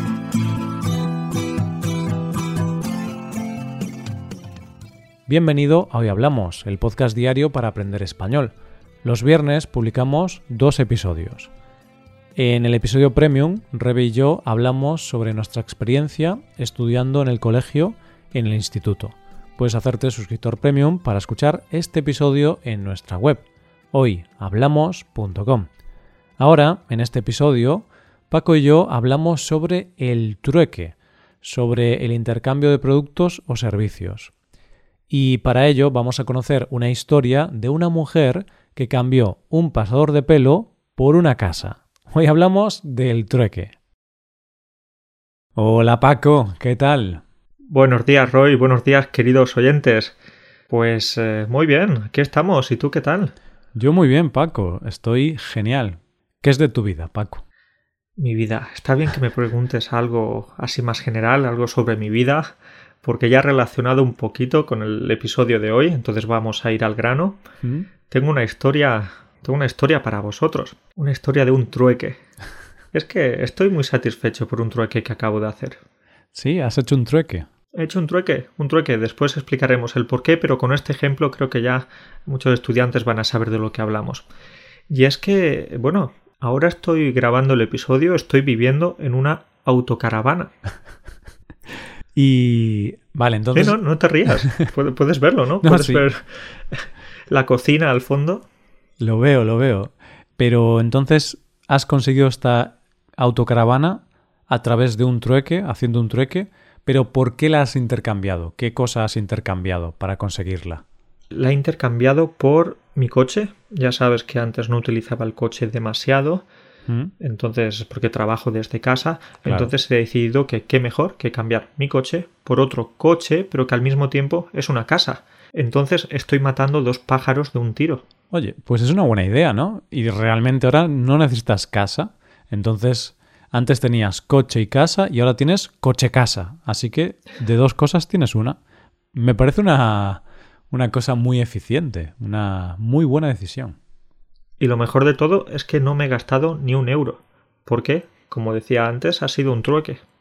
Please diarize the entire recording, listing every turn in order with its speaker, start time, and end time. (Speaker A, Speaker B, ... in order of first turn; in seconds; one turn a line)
Speaker A: 5.3-11.5
Speaker A: 12.3-25.7
Speaker A: 26.4-34.3
Speaker A: 35.1-43.7
Speaker A: 45.6-47.2
Speaker B: 47.7-50.2
Speaker B: 50.7-53.3
Speaker A: 53.7-57.4
Speaker B: 58.2-67.4
Speaker A: 67.6-67.9
Speaker B: 68.1-72.2
Speaker B: 72.9-75.8
Speaker A: 76.3-77.5
Speaker B: 77.8-84.3
Speaker B: 84.9-90.5
Speaker A: 92.2-93.8
Speaker B: 93.5-98.5
Speaker A: 95.6-96.0
Speaker A: 99.0-110.8
Speaker B: 111.3-116.5
Speaker B: 117.2-128.0
Speaker A: 119.5-119.7
Speaker A: 128.3-138.6
Speaker A: 139.1-143.8
Speaker B: 144.6-150.0